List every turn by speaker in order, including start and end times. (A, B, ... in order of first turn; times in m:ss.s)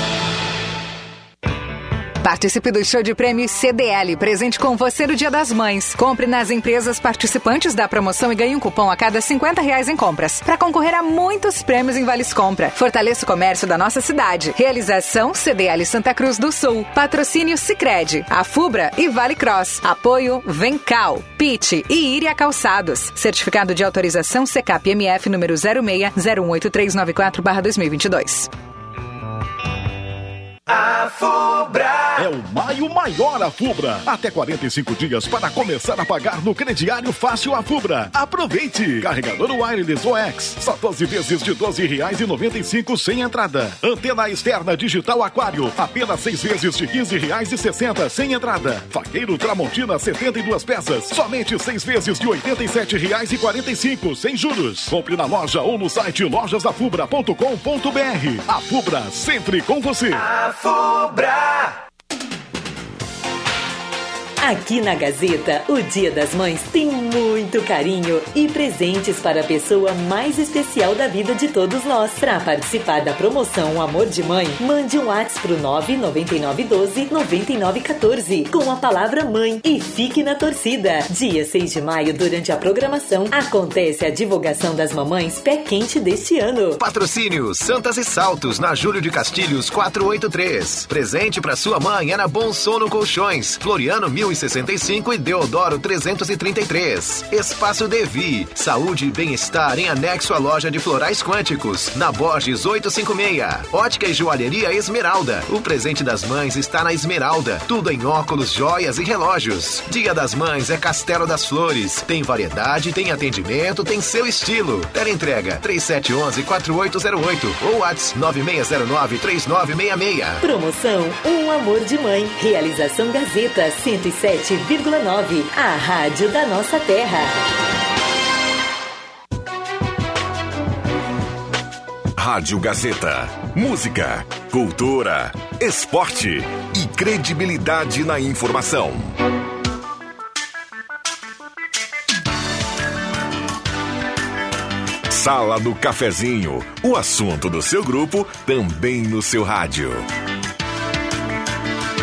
0:02.2-0:28.5 A
0:32.2-1:00.2 B
1:00.6-1:01.1 C
1:04.4-1:26.8 D
1:26.8-2:00.4 C
2:00.4-2:07.3 D
2:12.2-2:19.1 E
2:25.1-2:30.0 E